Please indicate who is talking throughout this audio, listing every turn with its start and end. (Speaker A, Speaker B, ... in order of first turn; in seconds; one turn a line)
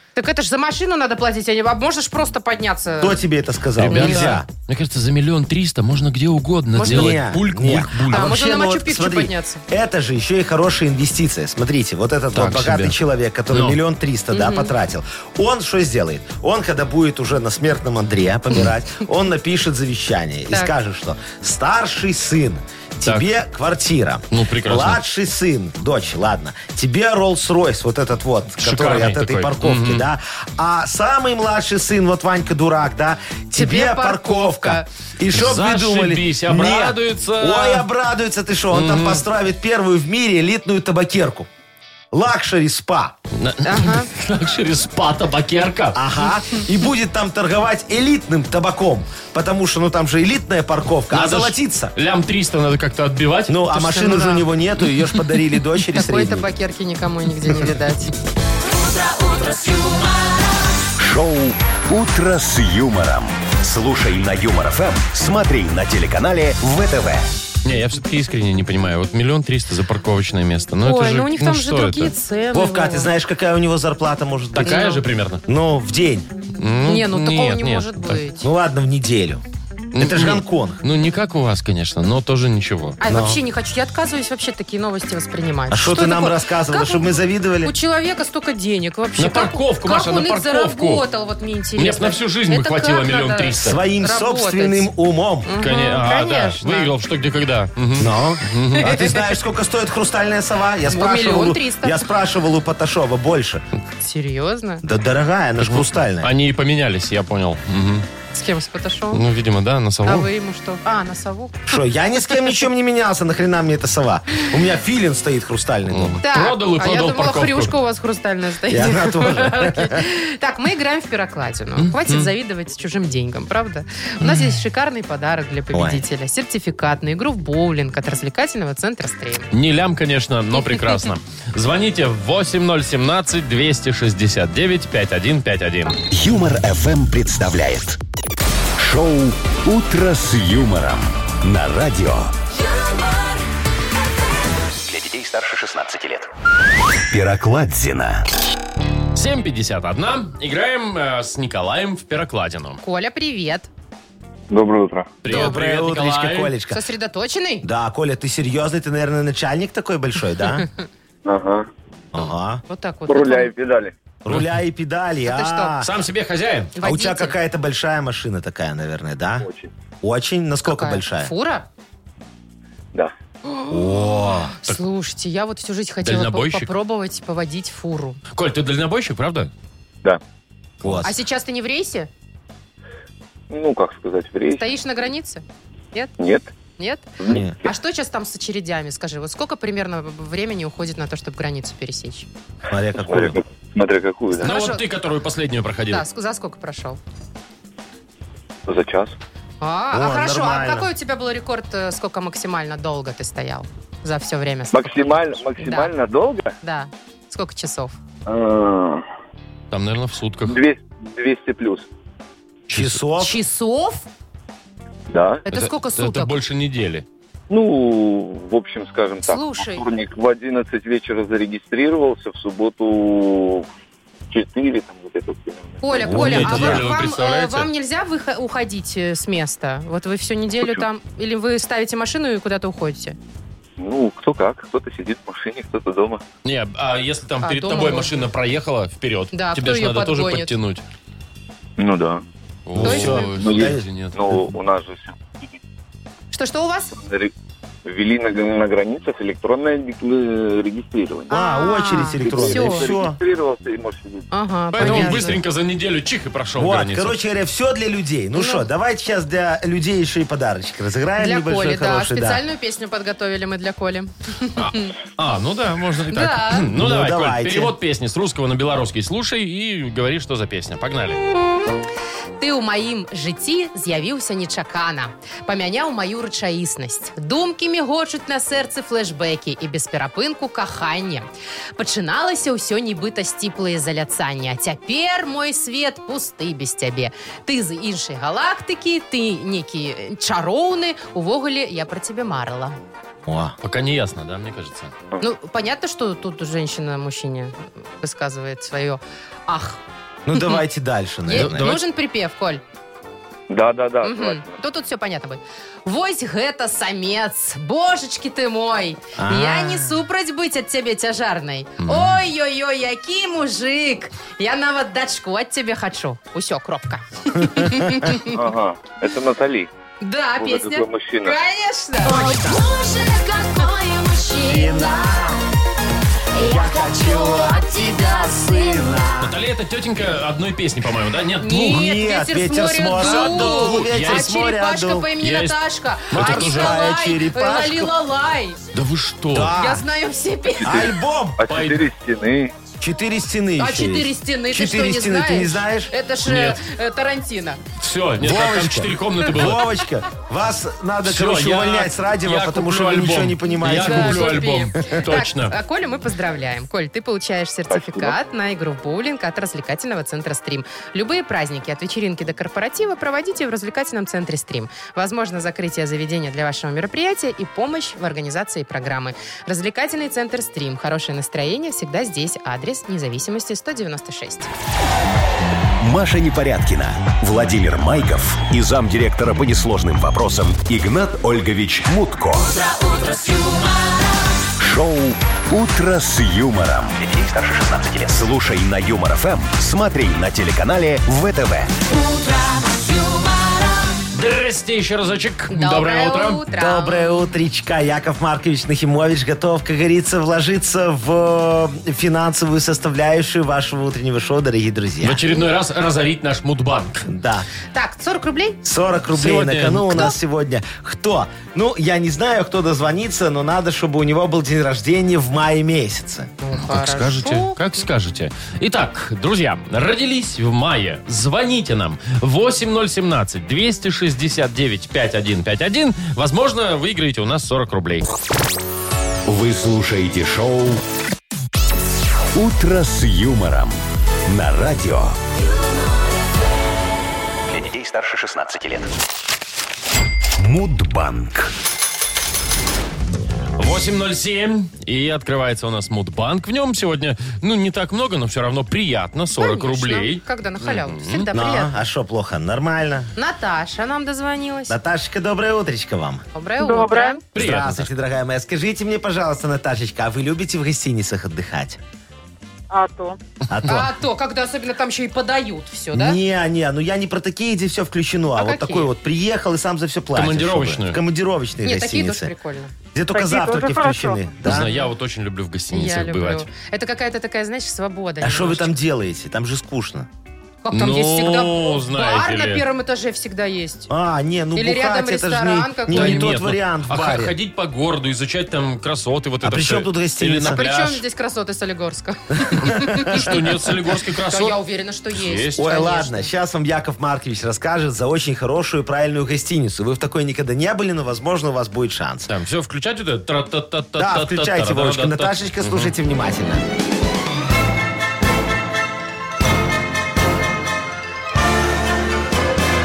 Speaker A: 0.2-3.2
Speaker B: 3.0-4.5
Speaker C: 3.8-8.3
Speaker A: 3.9-4.4
Speaker A: 6.8-7.2
Speaker B: 6.8-41.5
Speaker A: 8.1-9.6
Speaker C: 12.3-13.0
Speaker C: 13.5-13.8
Speaker A: 14.3-14.7
Speaker C: 24.3-25.0
Speaker C: 28.6-30.1
Speaker A: 33.6-34.9
Speaker C: 35.3-37.9
Speaker C: 38.7-39.2
Speaker B: 42.1-43.2
Speaker C: 43.3-46.0
Speaker A: 43.6-44.1
Speaker B: 45.9-51.9
Speaker C: 51.1-53.6
Speaker B: 53.5-56.5
Speaker A: 53.7-54.5
Speaker A: 55.9-58.1
Speaker D: 58.6-60.8
Speaker E: 61.0-67.3
Speaker C: 67.6-72.1
Speaker A: 70.8-73.1
Speaker B: 72.5-74.8
Speaker C: 74.5-75.4
Speaker A: 74.6-75.0
Speaker B: 75.5-76.3
Speaker C: 76.6-78.2
Speaker A: 76.8-78.5
Speaker B: 78.4-79.4
Speaker B: 79.9-80.8
Speaker C: 79.9-83.0
Speaker A: 83.0-94.9
Speaker B: 83.1-83.4
Speaker B: 85.7-87.8
Speaker C: 89.2-91.1
Speaker C: 91.8-93.8
Speaker B: 93.5-95.5
Speaker A: 95.5-96.9
Speaker C: 95.6-98.9
Speaker B: 98.0-103.7
Speaker A: 98.8-99.2
Speaker A: 100.9-102.1
Speaker A: 104.0-104.8
Speaker B: 104.8-106.3
Speaker C: 105.6-108.1
Speaker A: 108.3-109.2
Speaker C: 109.1-110.3
Speaker A: 110.0-111.7
Speaker B: 111.7-116.2
Speaker C: 115.9-117.7
Speaker A: 116.2-129.5
Speaker B: 118.7-120.0
Speaker C: 121.8-122.3
Speaker B: 125.7-126.0
Speaker C: 129.5-136.0
Speaker E: 136.1-138.0
Speaker E: 138.8-142.3
Speaker D: 142.6-143.3
Speaker F: 144.8-146.3
Speaker E: 147.1-148.3
Speaker C: 149.2-152.8
Speaker A: 152.8-153.7
Speaker G: 154.5-155.2
Speaker C: 155.2-156.5
Speaker B: 155.3-156.8
Speaker A: 155.3-155.5
Speaker A: 156.7-157.7
Speaker B: 157.6-160.7
Speaker G: 161.2-161.7
Speaker B: 162.1-162.6
Speaker A: 162.7-163.5
Speaker G: 163.1-163.9
Speaker B: 164.2-165.9
Speaker A: 165.2-165.7
Speaker C: 165.8-166.7
Speaker A: 166.8-167.3
Speaker B: 166.8-169.5
Speaker G: 169.4-169.7
Speaker B: 170.0-171.3
Speaker A: 170.7-171.7
Speaker A: 173.6-178.2
Speaker B: 173.7-174.6
Speaker C: 176.0-176.7
Speaker C: 178.3-179.5
Speaker C: 180.8-181.1
Speaker B: 180.8-181.2
Speaker A: 181.0-182.1
Speaker G: 183.5-184.8
Speaker A: 184.6-186.1
Speaker G: 186.2-186.5
Speaker A: 186.8-187.1
Speaker G: 187.2-187.5
Speaker B: 187.3-187.6
Speaker A: 187.6-192.3
Speaker B: 192.7-193.4
Speaker G: 193.0-194.5
Speaker A: 194.4-194.9
Speaker C: 194.4-196.1
Speaker A: 195.9-197.0
Speaker G: 198.7-199.2
Speaker A: 199.6-205.9
Speaker B: 199.9-200.9
Speaker G: 204.7-206.5
Speaker A: 206.6-208.0
Speaker G: 208.3-209.0
Speaker C: 209.7-210.6
Speaker G: 210.4-211.9
Speaker C: 212.7-213.0
Speaker B: 212.7-213.4
Speaker A: 213.2-214.1
Speaker G: 215.1-215.4
Speaker A: 215.5-216.4
Speaker C: 215.5-217.1
Speaker G: 217.5-223.7
Speaker A: 219.2-219.8
Speaker G: 224.3-226.2
Speaker A: 225.8-233.2
Speaker C: 226.1-227.7
Speaker B: 226.1-226.9
Speaker G: 233.8-236.2
Speaker C: 236.4-240.8
Speaker A: 237.4-238.3
Speaker A: 239.3-240.6
Speaker G: 241.8-242.2
Speaker C: 242.7-244.2
Speaker G: 242.8-245.2
Speaker B: 242.8-243.9
Speaker A: 242.8-243.3
Speaker A: 246.3-247.0
Speaker G: 247.0-247.3
Speaker G: 247.8-251.3
Speaker A: 251.3-252.9
Speaker B: 251.3-253.2
Speaker G: 252.2-254.3
Speaker A: 254.3-255.4
Speaker C: 254.7-257.2
Speaker B: 254.8-255.3
Speaker B: 256.6-262.4
Speaker A: 258.4-258.7
Speaker A: 261.2-264.9
Speaker C: 264.6-271.2
Speaker A: 266.1-266.7
Speaker B: 266.7-267.8
Speaker A: 272.4-292.8
Speaker B: 293.3-293.6
Speaker C: 293.6-294.9
Speaker A: 295.2-299.8
Speaker B: 300.3-301.7
Speaker A: 300.3-300.6
Speaker A: 301.3-302.6
Speaker C: 301.3-301.8
Speaker G: 303.5-304.6
Speaker A: 304.0-318.4
Speaker B: 309.2-310.0
Speaker C: 311.8-312.1
Speaker B: 317.4-318.1
Speaker G: 318.3-319.7
Speaker A: 320.0-322.4
Speaker G: 320.4-321.4
Speaker D: 322.1-325.4
Speaker B: 322.1-322.6
Speaker B: 324.4-325.4
Speaker D: 326.3-329.1
Speaker B: 326.4-329.4
Speaker C: 329.2-331.9
Speaker A: 331.4-338.6
Speaker B: 331.7-335.1
Speaker C: 332.9-334.3
Speaker C: 335.2-336.9
Speaker B: 336.1-337.9
Speaker C: 338.7-339.5
Speaker B: 339.3-339.8
Speaker A: 339.5-340.9
Speaker B: 340.6-341.4
Speaker G: 340.7-342.5
Speaker C: 341.5-341.8
Speaker B: 342.8-345.9
Speaker A: 343.6-347.6
Speaker C: 346.2-346.6
Speaker C: 347.8-349.6
Speaker B: 348.2-354.4
Speaker C: 351.1-355.5
Speaker A: 353.6-374.5
Speaker G: 357.7-358.2
Speaker E: 375.8-382.5
Speaker D: 382.4-384.5
Speaker E: 384.6-387.0
Speaker F: 387.0-388.3
Speaker E: 388.1-391.8
Speaker D: 391.9-394.0
Speaker C: 394.1-396.4
Speaker A: 395.5-397.3
Speaker B: 396.5-405.3
Speaker C: 405.0-407.1
Speaker B: 407.1-407.5
Speaker A: 407.7-408.6
Speaker B: 408.6-416.3
Speaker C: 409.1-410.1
Speaker A: 416.4-417.6
Speaker C: 416.5-428.1
Speaker E: 429.3-430.8
Speaker E: 432.4-435.2
Speaker F: 437.5-438.9
Speaker E: 440.4-441.5
Speaker C: 443.6-451.3
Speaker A: 449.4-451.8
Speaker B: 451.3-453.1
Speaker A: 453.2-454.8
Speaker B: 454.7-456.2
Speaker A: 456.4-457.2
Speaker H: 456.6-457.2
Speaker C: 457.4-457.9
Speaker B: 457.4-461.8
Speaker H: 462.7-463.2
Speaker B: 463.5-463.9
Speaker A: 463.6-466.2
Speaker B: 465.9-472.3
Speaker A: 468.4-468.9
Speaker C: 470.1-471.0
Speaker A: 471.6-472.7
Speaker B: 472.9-474.7
Speaker H: 473.1-474.3
Speaker C: 474.4-476.5
Speaker A: 474.4-474.9
Speaker A: 475.7-478.8
Speaker B: 478.2-480.1
Speaker A: 480.6-483.9
Speaker C: 480.7-482.6
Speaker B: 483.9-487.4
Speaker A: 484.6-486.3
Speaker C: 485.9-491.0
Speaker B: 489.4-490.6
Speaker A: 490.5-493.4
Speaker B: 492.5-493.4
Speaker C: 492.6-494.6
Speaker A: 494.3-496.3
Speaker C: 495.1-495.6
Speaker B: 495.6-502.3
Speaker C: 502.3-505.9
Speaker B: 504.0-506.6